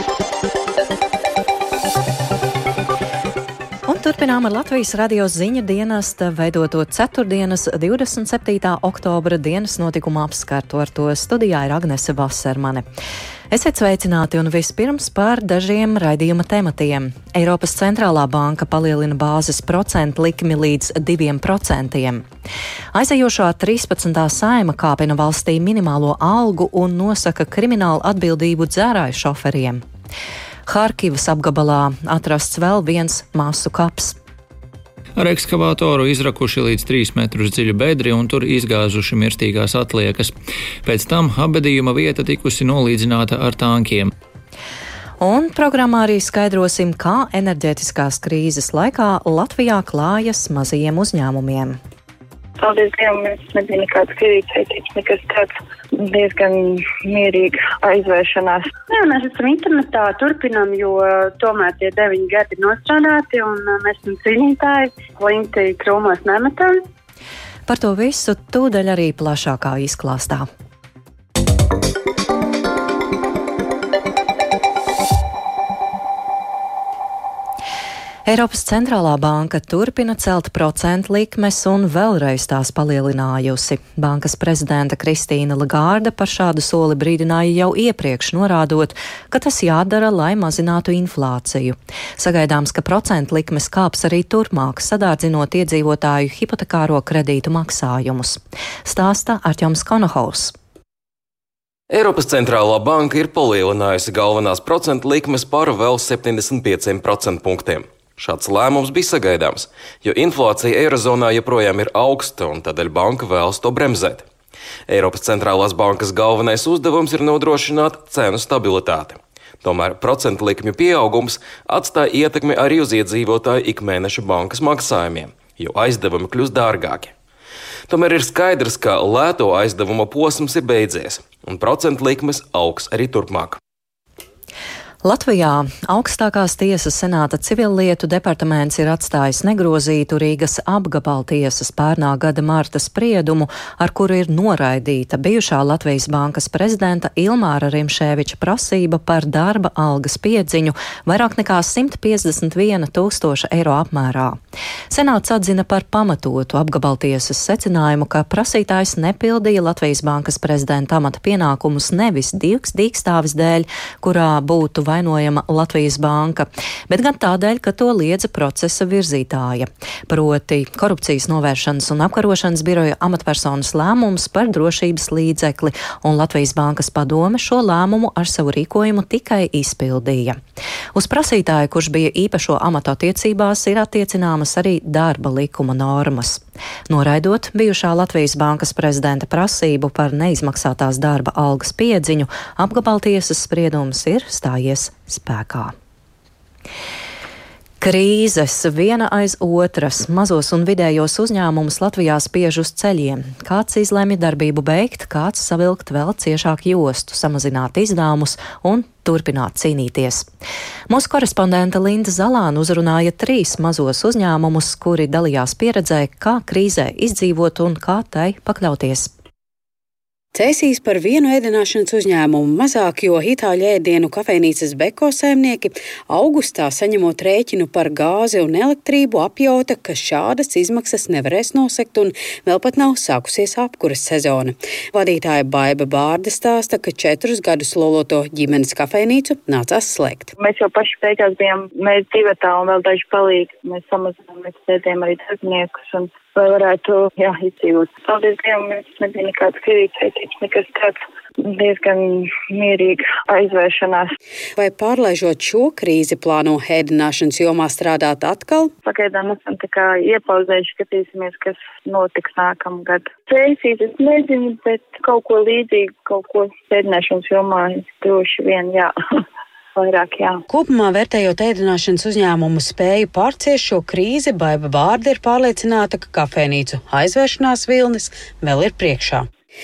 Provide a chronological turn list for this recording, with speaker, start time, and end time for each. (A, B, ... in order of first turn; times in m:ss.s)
0:03.8-0:12.8 A
0:13.5-0:22.2 A
0:22.9-0:29.8 A
0:30.7-0:34.2 A
0:35.2-0:40.3 B
0:40.8-0:44.1 B
0:45.2-0:51.8 A
0:52.6-0:58.7 C
0:58.9-1:06.8 D
1:07.7-1:10.5 A
1:18.2-1:40.5 A
1:41.9-1:54.2 E
1:54.9-2:07.1 E
2:07.9-2:13.6 E
2:15.0-2:34.4 A
2:34.9-3:00.4 A
3:00.9-3:15.7 A
3:17.8-3:30.3 A
3:30.9-3:39.1 A
3:40.3-4:00.3 F
4:00.4-4:14.1 C
4:14.6-4:18.7 F
4:18.8-4:28.9 C
4:29.7-4:30.4 C
4:30.5-4:39.3 F